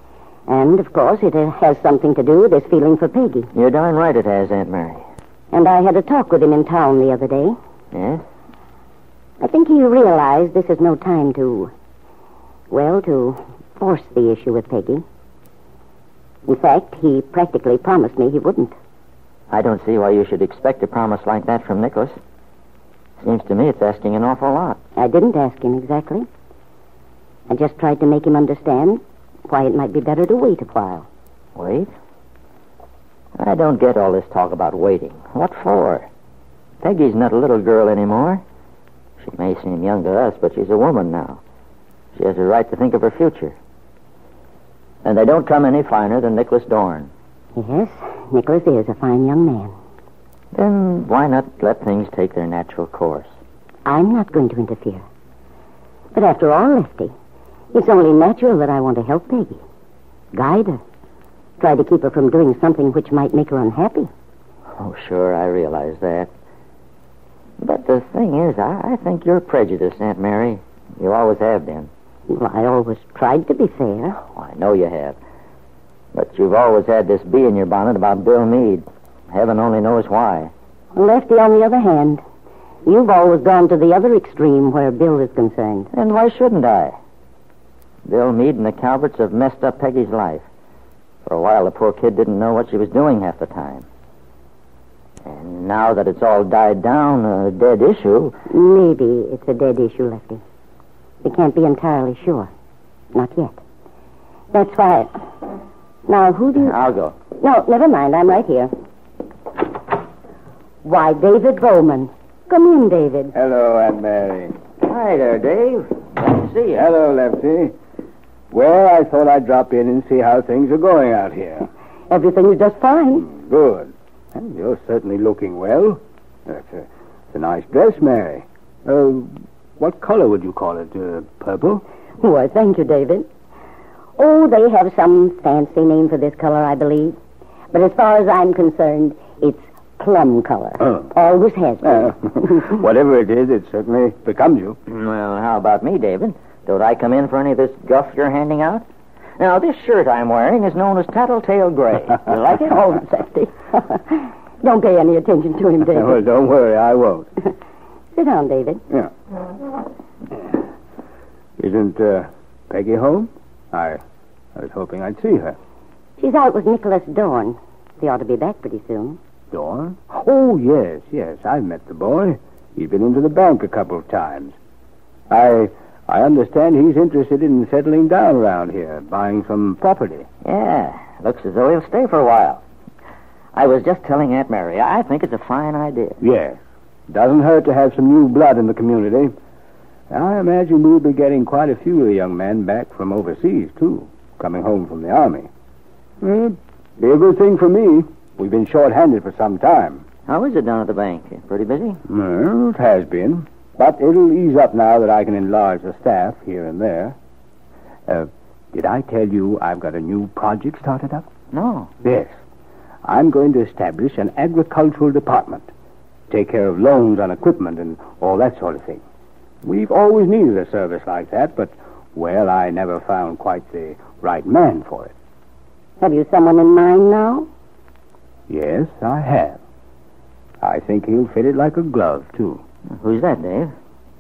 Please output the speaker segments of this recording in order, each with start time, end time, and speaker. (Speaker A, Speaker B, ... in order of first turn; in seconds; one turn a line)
Speaker A: 0.5-3.5
Speaker B: 3.5-5.0
Speaker A: 5.5-7.6
Speaker B: 7.9-8.2
Speaker A: 9.4-11.7
Speaker A: 12.7-15.0
Speaker A: 16.5-18.8
Speaker B: 19.5-22.2
Speaker B: 23.2-24.8
Speaker A: 25.0-26.3
Speaker A: 27.5-31.1
Speaker B: 31.6-31.9
Speaker B: 33.4-36.1
Speaker B: 36.8-38.4
Speaker B: 39.2-41.4
Speaker B: 42.2-43.5
Speaker B: 45.0-47.1
Speaker A: 47.5-49.8
Speaker B: 50.5-53.3
Speaker A: 53.9-55.0
Speaker A: 56.1-57.1
Speaker A: 57.7-59.6
Speaker A: 60.3-60.8
Speaker A: 61.6-64.1
Speaker B: 64.8-66.3
Speaker B: 67.6-71.9
Speaker A: 72.3-74.2
Speaker B: 74.3-75.2
Speaker B: 76.1-80.5
Speaker A: 80.9-82.2
Speaker A: 82.8-85.9
Speaker B: 85.9-87.0
Speaker B: 88.1-90.5
Speaker B: 91.2-93.9
Speaker B: 95.2-98.3
Speaker A: 98.5-100.4
Speaker A: 101.2-102.5
Speaker A: 103.1-103.6
Speaker A: 104.5-105.1
Speaker A: 106.1-106.8
Speaker B: 106.6-107.2
Speaker A: 107.4-108.7
Speaker A: 110.8-113.3
Speaker C: 113.3-114.6
Speaker B: 114.8-116.9
Speaker C: 116.7-117.8
Speaker C: 118.5-121.7
Speaker A: 122.1-123.3
Speaker C: 123.3-131.8
Speaker A: 132.2-133.3
Speaker A: 134.2-137.2
Speaker A: 137.7-142.8
Speaker C: 141.8-144.8
Speaker B: 144.9-148.8
Speaker B: 149.4-152.8
Speaker A: 152.6-156.2
Speaker C: 155.9-157.3
Speaker A: 158.2-158.8
Speaker C: 161.6-164.0
Speaker C: 164.6-165.6
Speaker A: 166.2-169.2
Speaker C: 169.5-174.6
Speaker C: 175.3-180.3
Speaker B: 180.4-182.6
Speaker B: 183.6-186.2
Speaker C: 186.2-189.3
Speaker C: 190.1-195.5
Speaker C: 196.2-200.0
Speaker B: 200.3-202.0
Speaker C: 202.1-207.2
Speaker C: 208.1-211.3
Speaker B: 211.5-211.9
Speaker C: 212.0-212.4
Speaker C: 213.0-215.7
Speaker C: 216.3-219.0
Speaker C: 219.6-225.1
Speaker A: 226.0-227.5
Speaker C: 228.5-229.6
Speaker C: 230.6-232.6
Speaker B: 232.9-233.7